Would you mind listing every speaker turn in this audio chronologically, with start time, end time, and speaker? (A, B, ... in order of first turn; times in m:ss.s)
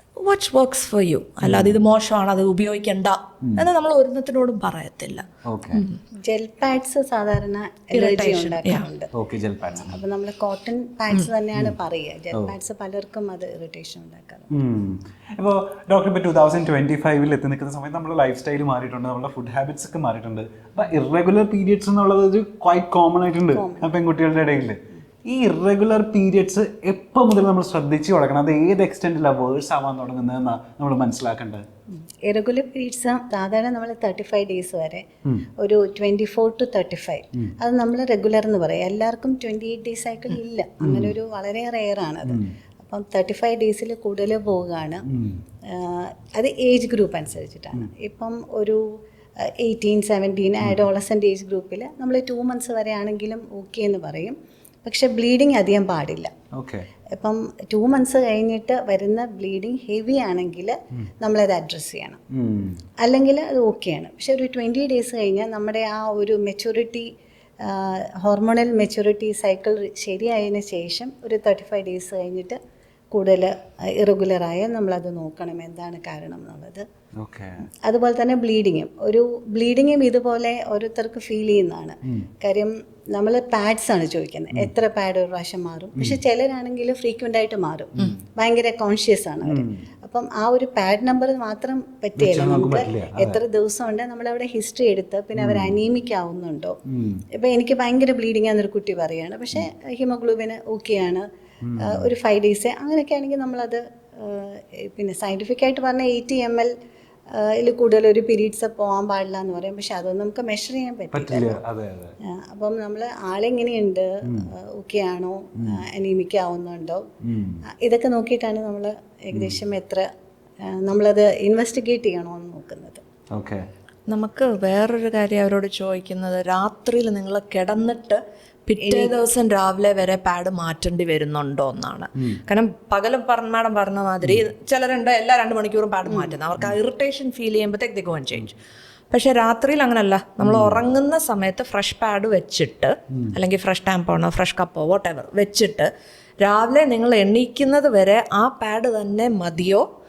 0:00.2-0:06.0 A
0:01.4-0:01.8 B
0:05.5-0:05.8 B
0:06.2-0:09.1 C
0:07.9-0:08.8 A
0:09.1-0:10.0 B
0:09.8-0:14.5 C
0:14.5-0:31.6 B
0:23.5-0:23.9 C
0:32.3-0:35.0 C
0:35.6-0:45.0 C
0:40.8-0:41.2 B
0:45.1-0:45.4 B
0:45.7-0:48.8 C
0:49.5-0:56.3 C
0:56.5-0:56.9 B
0:57.1-1:02.2 C
1:02.3-1:02.8 B
1:03.0-1:07.1 C
1:07.6-1:12.6 C
1:13.1-1:16.8 C
1:17.2-1:17.6 B
1:17.8-1:36.8 C
1:29.5-1:29.8 B
1:32.2-1:33.4 B
1:35.4-1:35.8 B
1:36.9-1:37.2 B
1:37.3-1:41.2 C
1:41.6-1:42.1 B
1:41.8-1:46.7 C
1:47.3-1:51.6 C
1:51.1-1:52.1 B
1:52.2-1:57.1 C
1:54.2-1:54.5 B
1:57.2-1:57.6 B
1:57.7-2:00.1 C
1:59.3-1:59.6 B
2:00.7-2:03.0 C
2:03.3-2:03.6 B
2:04.1-2:18.6 A
2:08.8-2:09.2 C
2:19.1-2:25.9 A
2:20.4-2:20.8 B
2:26.4-2:29.8 A